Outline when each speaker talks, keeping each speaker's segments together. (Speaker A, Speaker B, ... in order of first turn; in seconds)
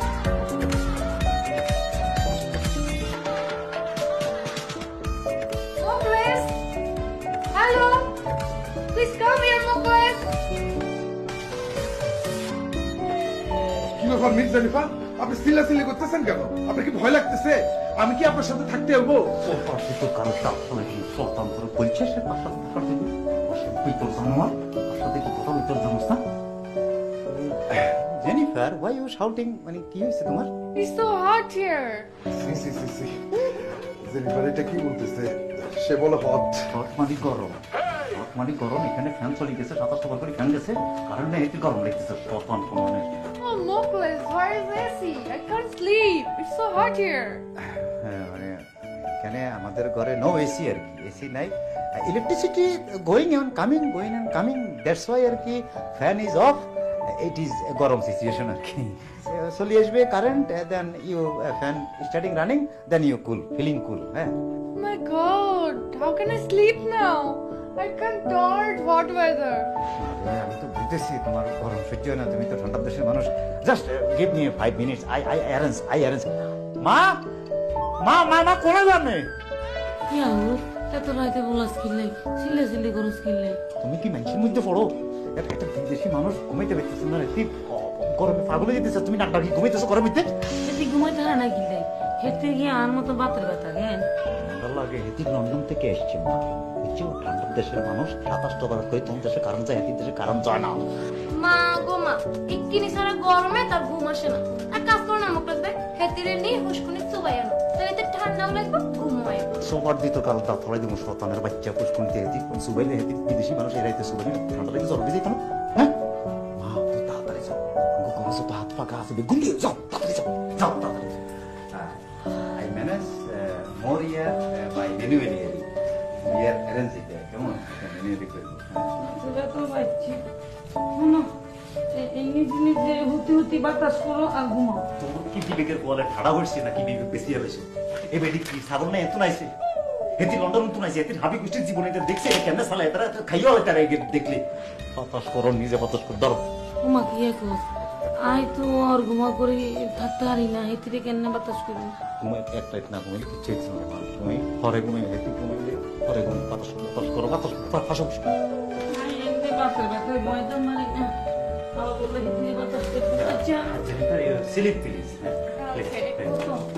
Speaker A: 5.8-6.6, 7.5-8.2, 8.9-10.3, 30.7-32.1, 43.4-47.4, 64.7-69.7, 165.6-166.2
Speaker B: 14.0-19.4, 32.4-33.2, 34.0-36.7
Speaker C: 19.4-26.2, 27.3-30.5, 36.7-43.1, 47.6-64.3, 70.0-77.2, 78.0-79.3, 83.8-90.3, 94.3-100.8, 109.6-115.9, 116.6-129.0, 135.0-139.5, 140.2-144.4, 144.9-146.4, 152.2-158.4, 163.1-166.5
Speaker D: 80.1-83.6, 90.6-94.0, 129.0-130.2, 130.9-131.3, 131.9-134.8, 146.8-147.6, 148.2-151.9, 158.9-161.1, 161.8-163.7, 166.2-166.6
Speaker E: 101.4-109.4